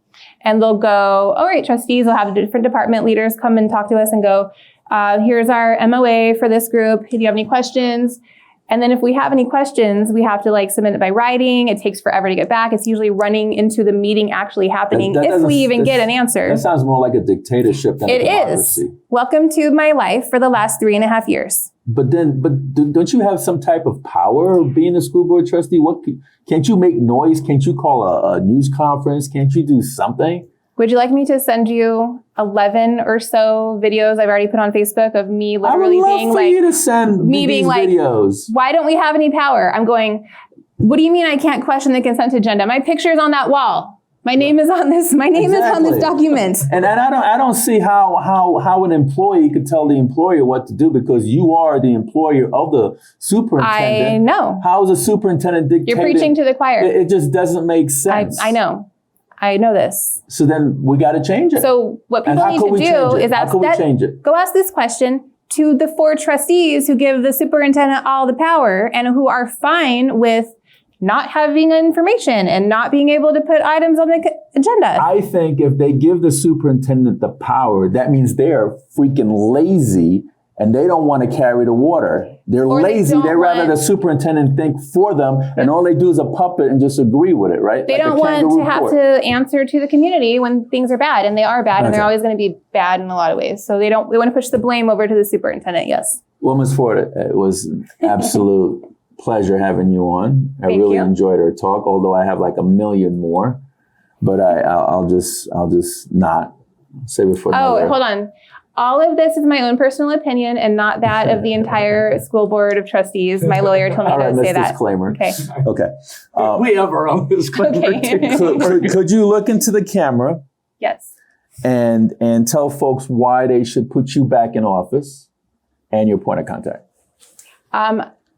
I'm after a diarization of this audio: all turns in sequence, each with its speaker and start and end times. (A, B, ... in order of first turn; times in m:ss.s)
0:00.4-0:16.6 A
0:14.9-0:18.9 B
0:18.1-0:21.7 A
0:21.8-0:30.4 B
0:30.8-0:36.6 A
0:35.6-0:38.5 B
0:37.2-0:40.2 A
0:40.8-0:46.7 A
0:45.3-0:58.6 B
0:53.6-0:54.6 A
0:55.8-0:56.9 A
0:58.1-0:58.9 A
0:59.4-1:00.2 A
1:00.3-1:01.7 B
1:01.6-1:15.0 A
1:02.2-1:04.2 B
1:15.0-1:29.0 B
1:22.7-1:23.8 A
1:27.9-1:36.2 A
1:31.8-1:32.1 B
1:36.4-1:43.6 B
1:40.6-1:41.1 A
1:44.2-1:46.5 B
1:47.0-1:48.0 B
1:47.5-1:55.4 A
1:54.0-1:56.7 B
1:56.4-1:58.8 C
1:57.6-1:58.6 A
1:58.2-2:00.4 B
2:00.8-2:01.1 A
2:01.6-2:05.3 B
2:05.9-2:06.8 B
2:07.7-2:08.0 A